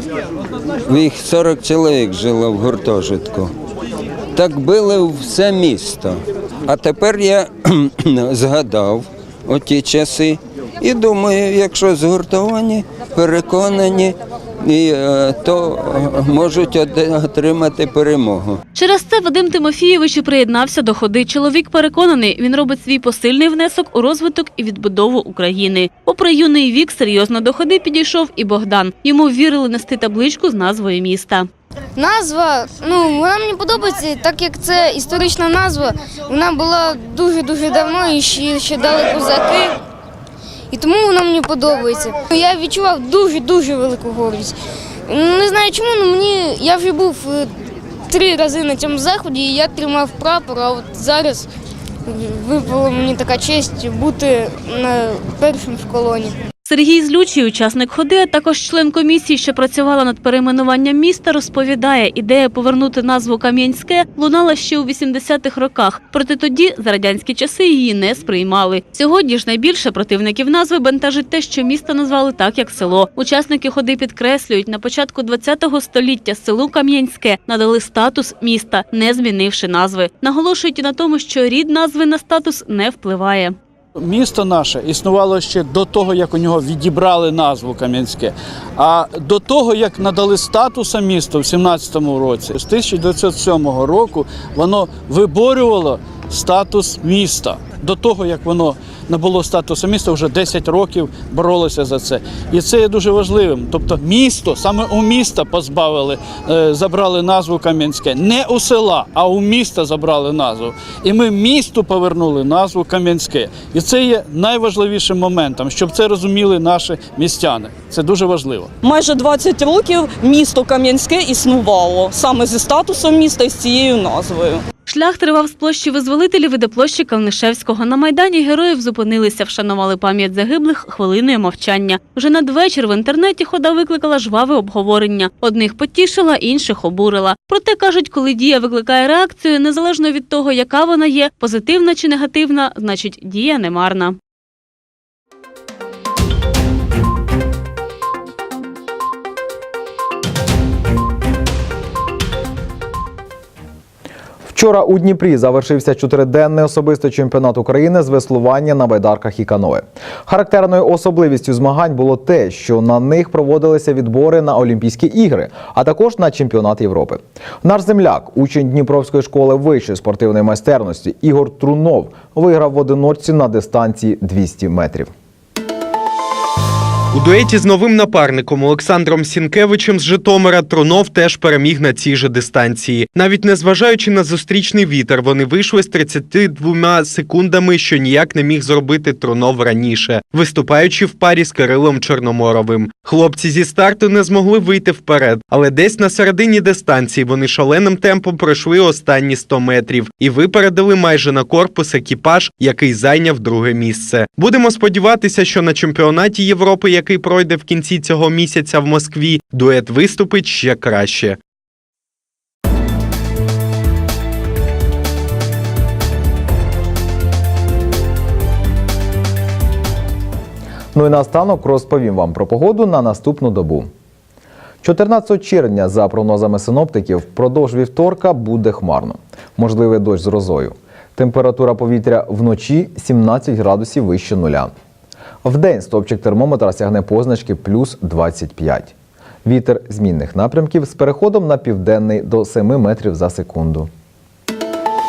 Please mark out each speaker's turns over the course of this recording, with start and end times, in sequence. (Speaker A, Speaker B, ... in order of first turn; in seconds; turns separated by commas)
Speaker A: 0.9-3.5, Speaker A: 4.3-18.6, Speaker B: 18.8-31.5, Speaker C: 32.0-39.8, Speaker C: 40.7-44.5, Speaker C: 45.1-47.5, Speaker C: 48.1-51.5, Speaker C: 52.1-56.4, Speaker B: 56.7-83.5, Speaker D: 84.0-118.7, Speaker E: 118.8-124.6, Speaker B: 124.9-144.2, Speaker F: 154.5-175.1, Speaker G: 177.1-211.4, Speaker F: 220.9-223.9, Speaker F: 224.8-234.7, Speaker F: 235.4-238.9, Speaker F: 239.4-243.9